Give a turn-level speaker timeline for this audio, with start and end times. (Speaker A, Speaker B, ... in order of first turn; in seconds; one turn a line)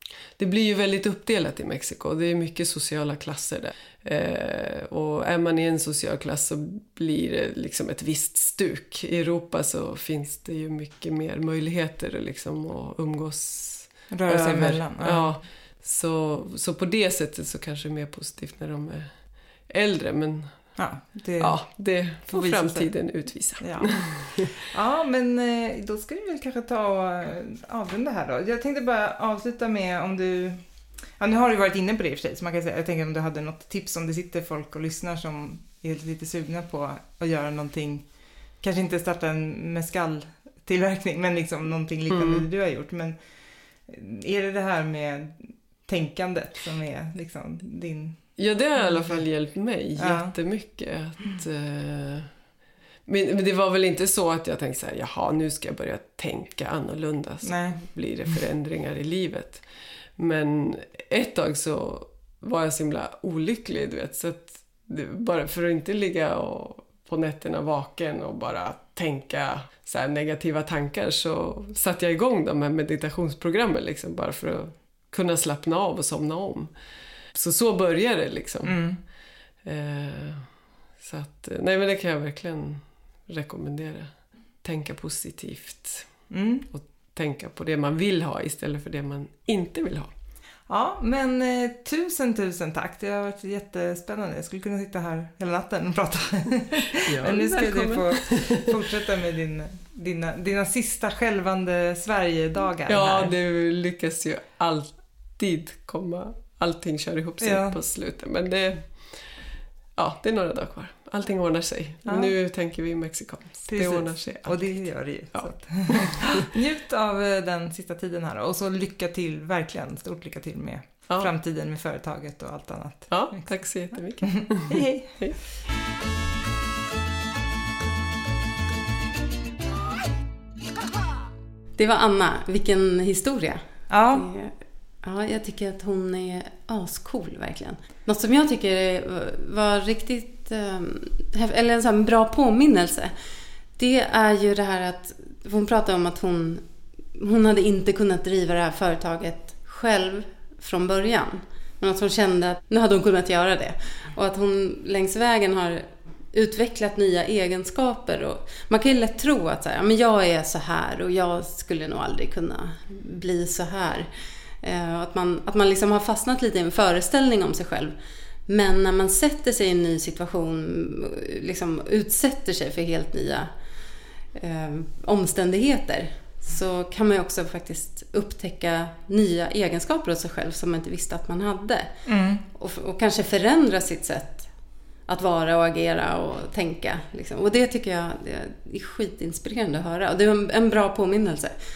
Speaker A: 0.4-19.1
Speaker B: 14.1-15.3
Speaker A: 19.7-20.7
Speaker B: 20.8-22.9
Speaker A: 21.4-24.5
Speaker B: 23.5-30.6
Speaker B: 31.2-38.1
Speaker B: 38.6-43.2
Speaker A: 42.1-42.5
Speaker B: 43.9-49.2
Speaker A: 48.4-52.3
Speaker B: 50.0-50.3
Speaker A: 53.0-59.6
Speaker B: 57.4-57.8
Speaker A: 60.2-76.7
Speaker A: 77.3-78.8
Speaker B: 78.6-79.0
Speaker A: 79.6-80.5
Speaker A: 81.0-84.1
Speaker A: 84.6-86.1
Speaker B: 86.3-86.7
Speaker A: 86.7-90.1
Speaker B: 90.7-103.3
Speaker A: 97.0-98.7
Speaker A: 102.8-108.9
Speaker B: 107.4-107.8
Speaker A: 110.0-116.5
Speaker B: 112.0-112.3
Speaker B: 113.7-125.2
Speaker A: 123.1-125.4
Speaker C: 131.8-143.1
Speaker B: 133.9-134.3
Speaker C: 143.8-164.1
Speaker C: 164.6-173.5
Speaker C: 174.3-184.5
Speaker B: 182.1-182.4
Speaker C: 185.1-191.6